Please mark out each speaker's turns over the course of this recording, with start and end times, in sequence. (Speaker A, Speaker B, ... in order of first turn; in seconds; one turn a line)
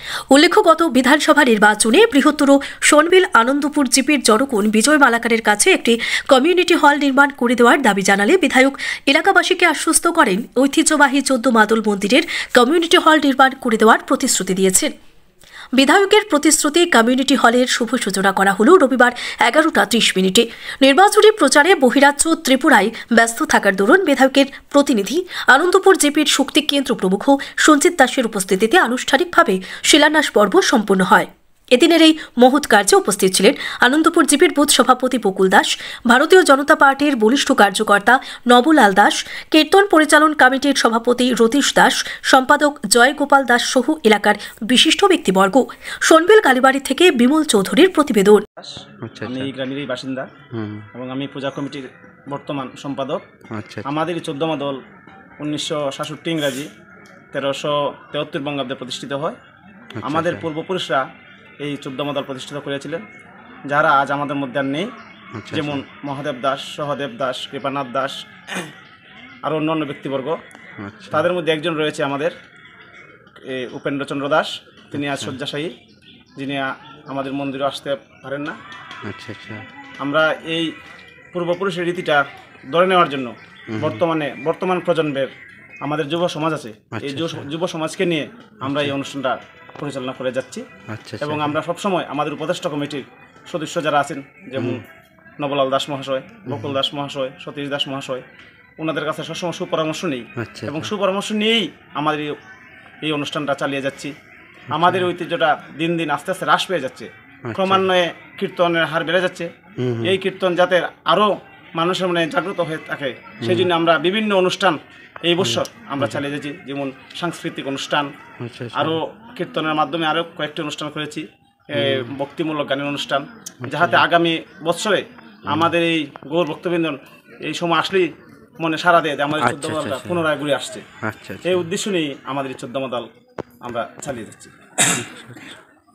Speaker A: 0.3-14.9
Speaker A: 15.8-48.4
Speaker B: 48.6-50.3
Speaker C: 49.0-49.5
Speaker C: 50.5-50.9
Speaker B: 50.9-53.2
Speaker C: 53.5-53.9
Speaker B: 53.8-54.8
Speaker B: 55.4-56.7
Speaker B: 57.3-59.4
Speaker C: 60.0-60.5
Speaker B: 60.0-61.0
Speaker B: 61.6-63.0
Speaker B: 63.7-64.9
Speaker C: 65.3-65.8
Speaker B: 65.5-68.7
Speaker B: 69.5-70.4
Speaker C: 70.8-71.2
Speaker B: 71.1-72.3
Speaker B: 73.4-75.7
Speaker C: 74.9-75.4
Speaker B: 76.4-78.6
Speaker C: 79.0-79.6
Speaker B: 80.0-80.7
Speaker B: 81.3-85.3
Speaker C: 83.7-84.0
Speaker B: 85.8-90.7
Speaker C: 86.9-87.5
Speaker C: 88.6-88.9
Speaker C: 90.9-91.5
Speaker B: 91.2-94.8
Speaker C: 94.5-94.8
Speaker B: 95.4-98.2
Speaker C: 96.5-96.8
Speaker B: 98.8-102.3
Speaker C: 100.4-100.9
Speaker B: 103.0-104.1
Speaker B: 104.7-109.5
Speaker C: 104.7-105.1
Speaker C: 107.5-107.8
Speaker C: 109.8-110.2
Speaker B: 110.0-118.1
Speaker C: 113.4-113.7
Speaker C: 115.4-116.2
Speaker C: 118.4-119.0
Speaker B: 118.7-130.8
Speaker C: 121.7-122.1
Speaker C: 123.6-124.0
Speaker C: 129.4-130.2
Speaker C: 131.0-131.6
Speaker B: 131.4-133.1
Speaker B: 133.6-134.5
Speaker C: 134.9-135.6